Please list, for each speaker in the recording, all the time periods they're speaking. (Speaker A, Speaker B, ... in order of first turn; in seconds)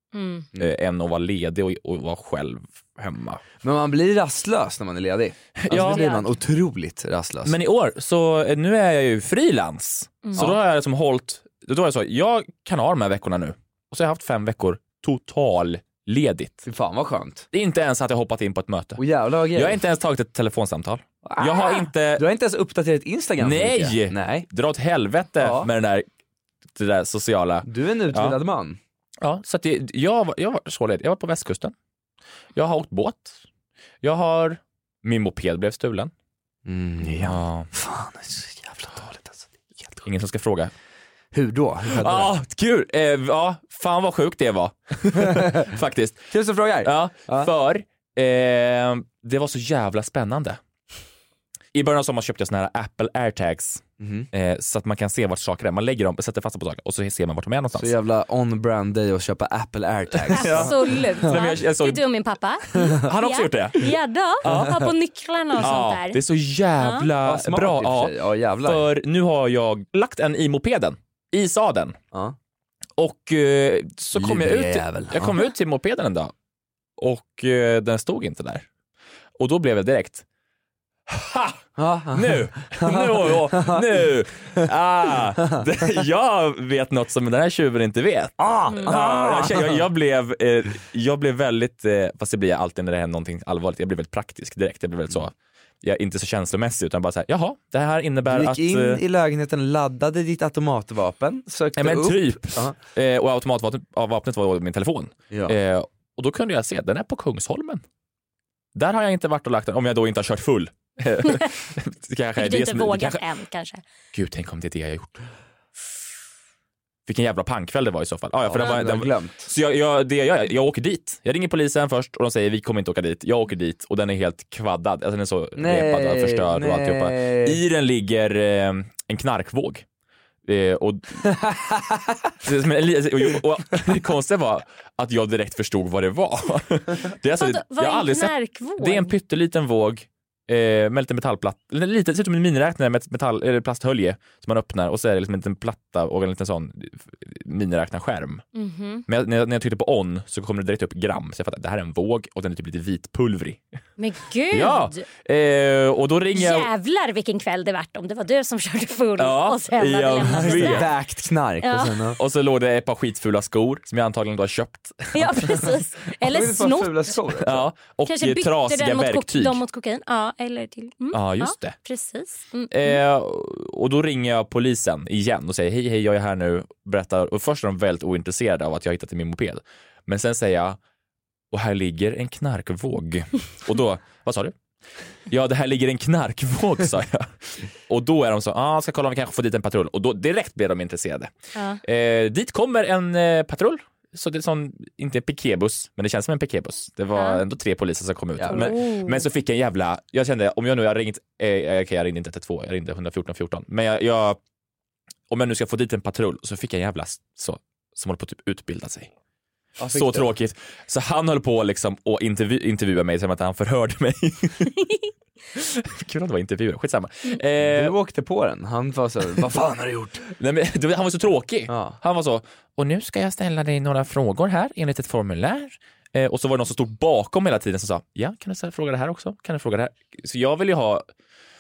Speaker A: 0.1-0.5, 5.7-6.3, 60.3-66.2, 66.8-67.1, 88.7-89.0, 112.4-113.8, 137.4-139.1, 148.6-149.1, 154.0-155.1, 156.4-160.9, 161.6-162.1, 165.1-166.9, 168.1-173.0, 191.5-191.8, 197.2-197.4, 198.5-199.2
Speaker B: 0.6-3.4, 5.6-6.0, 7.5-16.7, 17.5-19.0, 19.5-22.2, 23.4-26.1, 26.8-28.4, 29.2-31.7, 32.6-33.4, 34.0-36.1, 37.0-37.7, 40.0-40.7, 42.0-46.3, 46.8-50.6, 51.7-57.9, 60.2-62.0, 63.1-63.9, 64.5-64.8, 65.6-72.0, 73.0-76.3, 77.0-78.7, 79.4-80.2, 81.1-99.0, 101.8-107.8, 108.8-113.2, 114.1-115.2, 117.1-129.8, 130.4-131.5, 132.4-148.4, 149.1-153.6, 154.5-156.7, 159.2-160.9, 162.2-165.7, 167.4-169.6, 171.1-171.8, 172.7-180.8, 181.5-184.5, 185.3-191.3, 191.8-204.4, 205.3-209.1, 209.9-214.8, 215.5-217.9, 220.3-231.1
Speaker C: 3.6-7.6, 16.6-17.5, 19.0-19.8, 21.2-24.5, 25.4-25.7, 27.7-28.8, 36.7-39.9, 41.3-42.3, 45.2-45.6, 46.3-47.5, 54.0-54.3, 57.7-61.4, 64.5-64.8, 67.2-68.9, 74.2-75.4, 81.8-84.0, 88.4-89.8, 98.3-102.8, 118.5-119.5, 125.6-127.6, 131.5-132.3, 160.3-162.2, 166.2-167.7, 198.4-198.7, 209.8-210.3, 217.6-220.2, 221.7-222.0